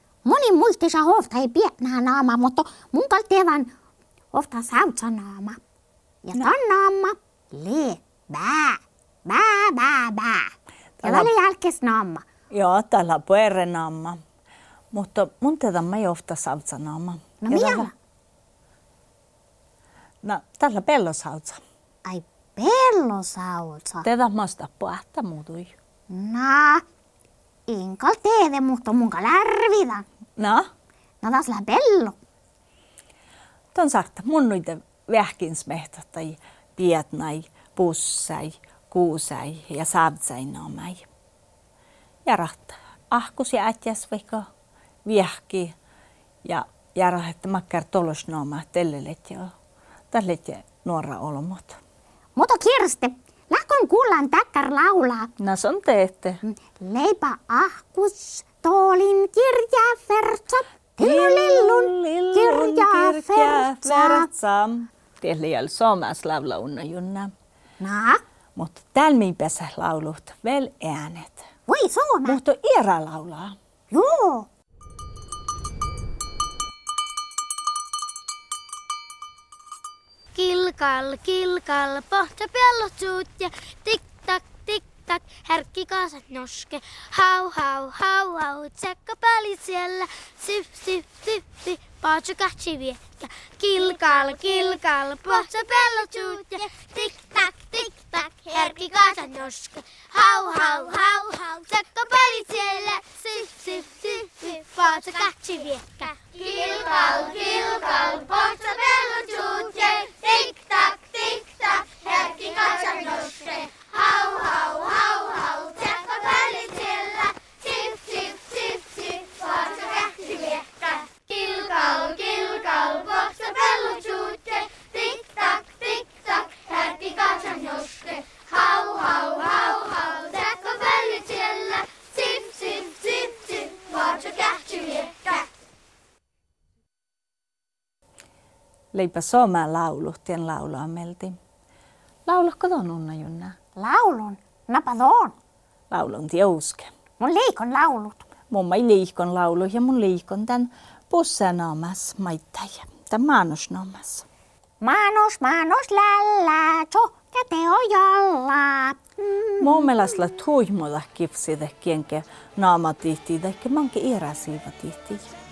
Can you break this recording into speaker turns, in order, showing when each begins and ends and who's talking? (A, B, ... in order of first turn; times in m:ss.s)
0:00.2-0:03.7 A
0:04.3-0:05.6 A
0:06.2-0:10.5 A
0:11.0-0:11.3 B
0:11.0-0:12.2 A
0:12.5-0:14.2 B
0:14.9-0:17.9 B
0:17.4-0:17.9 A
0:20.2-0:21.6 B
0:22.0-0:24.1 A
0:24.0-0:25.7 B
0:26.1-0:26.8 A
0:27.7-0:30.1 A
0:30.4-0:30.7 B
0:31.2-0:32.2 A
0:33.8-0:41.1 B
0:42.3-0:44.5 B
0:45.0-0:45.7 B
0:46.4-0:49.5 B
0:50.1-0:51.8 B
0:52.4-0:55.3 A
0:55.4-0:56.4 B
0:56.4-1:04.3 A
1:01.0-1:07.3 B
1:07.8-1:08.2 A
1:08.6-1:11.5 B
1:11.7-1:12.4 A
1:12.2-1:13.6 B
1:13.9-1:14.5 A
1:20.4-2:15.5 C
2:18.9-2:21.4 B
2:22.3-2:23.6 B
2:23.8-2:25.3 A
2:25.9-2:26.9 B
2:27.2-2:28.2 A
2:28.5-2:34.3 B
2:34.8-2:40.0 A
2:39.6-2:45.2 B